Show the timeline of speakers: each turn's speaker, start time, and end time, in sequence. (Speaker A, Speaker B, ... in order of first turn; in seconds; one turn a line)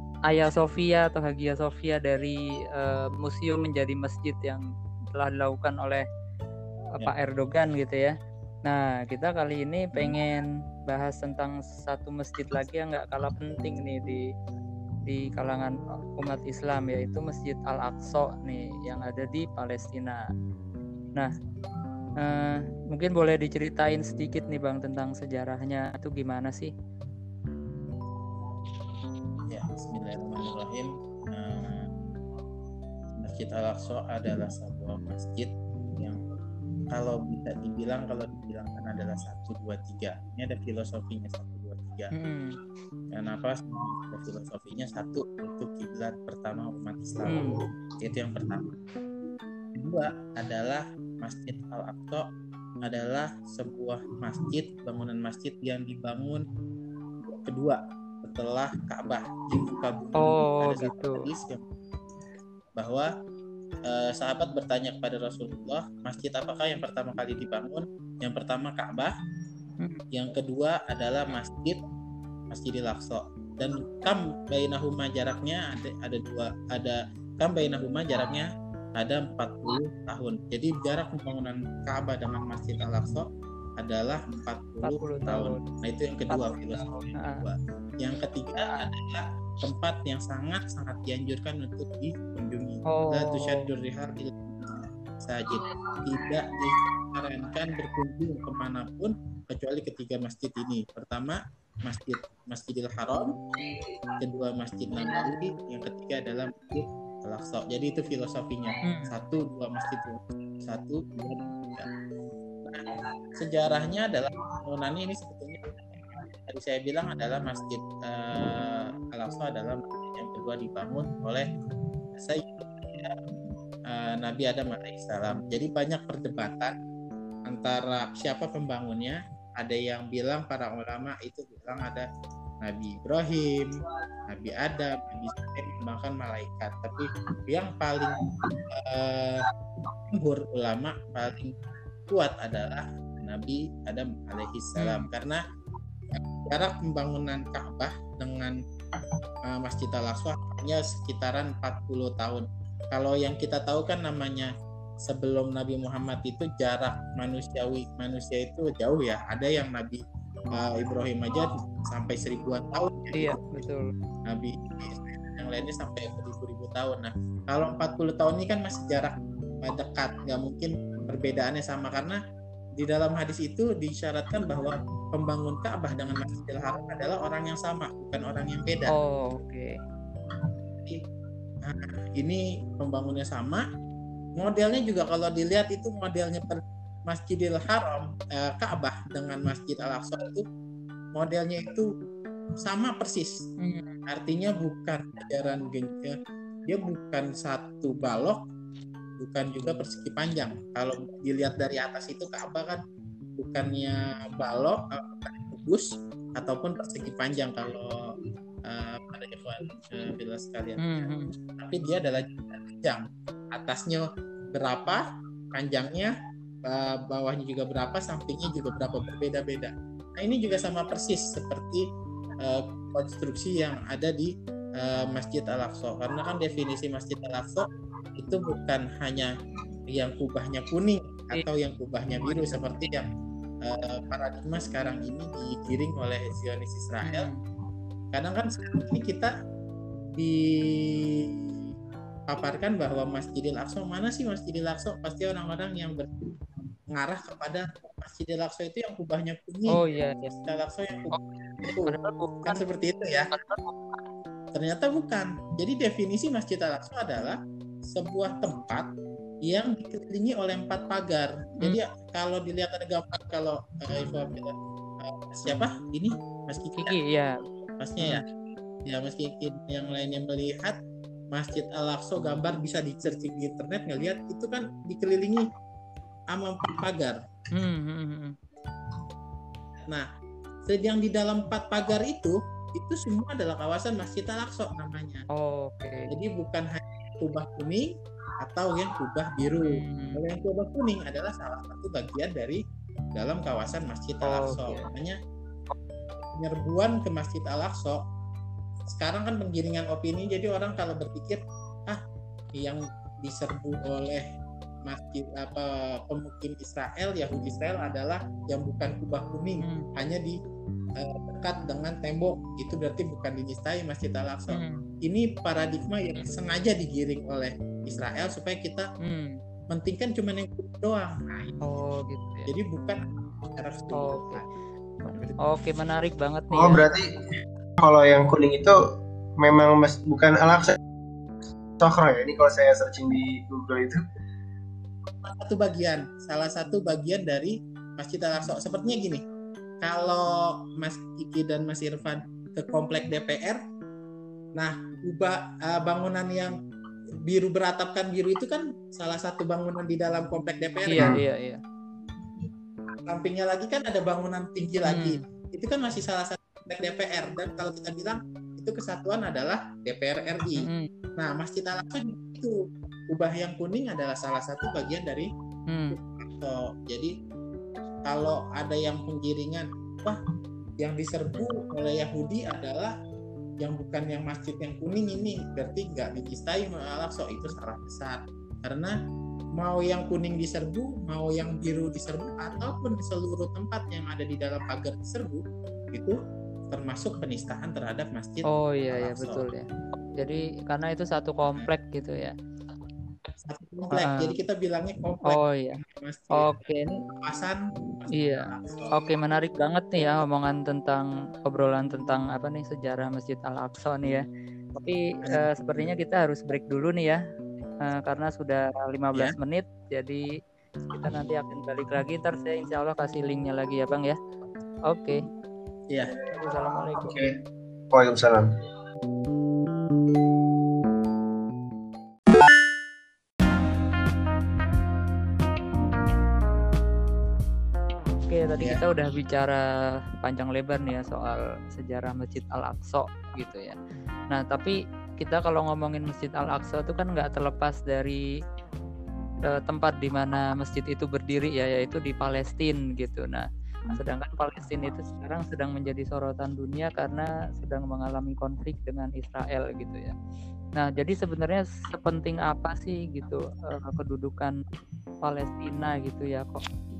Speaker A: 0.3-4.6
Speaker A: 5.2-6.0
Speaker A: 7.0-8.1
Speaker A: 8.7-14.2
Speaker A: 15.1-20.2
Speaker A: 22.2-26.7
Speaker B: 29.5-31.9
Speaker B: 33.2-36.2
Speaker B: 36.9-42.1
Speaker A: 42.1-42.6
Speaker B: 43.1-48.7
Speaker A: 47.3-47.6
Speaker B: 49.8-52.2
Speaker B: 52.9-56.4
Speaker B: 57.3-61.6
Speaker A: 60.2-61.3
Speaker B: 62.7-63.1
Speaker B: 63.9-69.1
Speaker B: 70.1-71.8
Speaker B: 72.5-83.3
Speaker B: 83.8-103.3
Speaker A: 84.8-85.6
Speaker A: 86.3-87.4
Speaker A: 92.9-93.7
Speaker B: 104.2-111.9
Speaker A: 108.8-109.1
Speaker B: 112.7-121.5
Speaker B: 122.1-123.2
Speaker B: 123.9-126.7
Speaker B: 127.5-132.1
Speaker B: 132.6-139.4
Speaker B: 140.1-145.4
Speaker A: 144.8-145.1
Speaker B: 146.1-148.6
Speaker B: 149.5-154.5
Speaker B: 155.0-160.0
Speaker B: 160.6-163.7
Speaker A: 163.1-163.9
Speaker B: 164.3-172.2
Speaker B: 172.8-178.9
Speaker A: 178.9-179.7
Speaker B: 181.7-183.6
Speaker B: 184.4-190.4
Speaker B: 191.2-191.9
Speaker B: 192.6-193.3
Speaker A: 193.6-193.9
Speaker B: 194.1-196.2
Speaker B: 196.7-198.4
Speaker B: 199.2-202.8
Speaker B: 203.4-208.1
Speaker B: 208.7-213.0
Speaker A: 210.8-211.3
Speaker B: 213.6-216.1
Speaker B: 216.7-221.8
Speaker B: 222.4-229.3
Speaker B: 229.9-233.1
Speaker A: 232.3-232.6
Speaker B: 233.7-237.3
Speaker A: 237.0-237.4
Speaker B: 238.1-239.3
Speaker B: 240.2-241.7
Speaker B: 242.3-246.3
Speaker B: 246.9-253.3
Speaker A: 249.7-250.2
Speaker A: 251.1-252.7
Speaker A: 253.3-254.0
Speaker B: 254.5-258.9
Speaker B: 259.4-267.0
Speaker A: 266.8-267.4
Speaker B: 267.8-268.2
Speaker B: 268.9-270.8
Speaker B: 271.3-275.5
Speaker B: 276.3-277.2
Speaker A: 277.5-278.4
Speaker B: 280.7-285.2
Speaker A: 285.3-286.1
Speaker B: 286.1-292.6
Speaker A: 289.6-290.2
Speaker B: 293.1-295.2
Speaker A: 294.2-294.9
Speaker B: 296.2-298.0
Speaker B: 298.9-302.0
Speaker B: 302.6-304.2
Speaker B: 304.9-310.4
Speaker A: 309.6-309.9
Speaker B: 311.0-318.9
Speaker A: 314.5-314.9
Speaker A: 319.0-319.4
Speaker B: 319.7-321.7
Speaker A: 321.6-322.5
Speaker B: 322.5-324.5
Speaker A: 323.9-324.4
Speaker B: 325.0-325.4
Speaker A: 325.4-326.9
Speaker C: 326.5-327.1
Speaker C: 327.8-328.8
Speaker C: 329.4-330.8
Speaker C: 331.8-334.0
Speaker B: 335.2-339.2
Speaker B: 339.8-343.6
Speaker B: 344.6-346.6
Speaker B: 347.3-351.1
Speaker A: 350.9-351.6
Speaker B: 353.1-362.6
Speaker A: 354.9-355.2
Speaker A: 360.6-360.9
Speaker B: 363.1-365.3
Speaker A: 365.7-366.0
Speaker B: 365.9-367.1
Speaker B: 368.1-370.2
Speaker B: 370.8-372.9
Speaker B: 373.6-378.9
Speaker B: 379.6-386.2
Speaker B: 386.7-389.4
Speaker A: 388.5-392.3
Speaker B: 393.4-398.9
Speaker A: 393.9-394.4
Speaker A: 395.3-395.8
Speaker A: 396.3-396.9
Speaker A: 398.1-404.2
Speaker A: 404.8-407.2
Speaker B: 405.2-405.5
Speaker A: 407.9-410.2
Speaker A: 410.9-414.2
Speaker A: 414.9-415.2
Speaker A: 416.3-417.2
Speaker C: 417.0-417.3
Speaker C: 417.9-418.5
Speaker A: 428.3-429.6
Speaker A: 430.2-433.8
Speaker A: 434.3-438.2
Speaker A: 439.5-450.2
Speaker A: 450.8-454.5
Speaker A: 455.2-456.6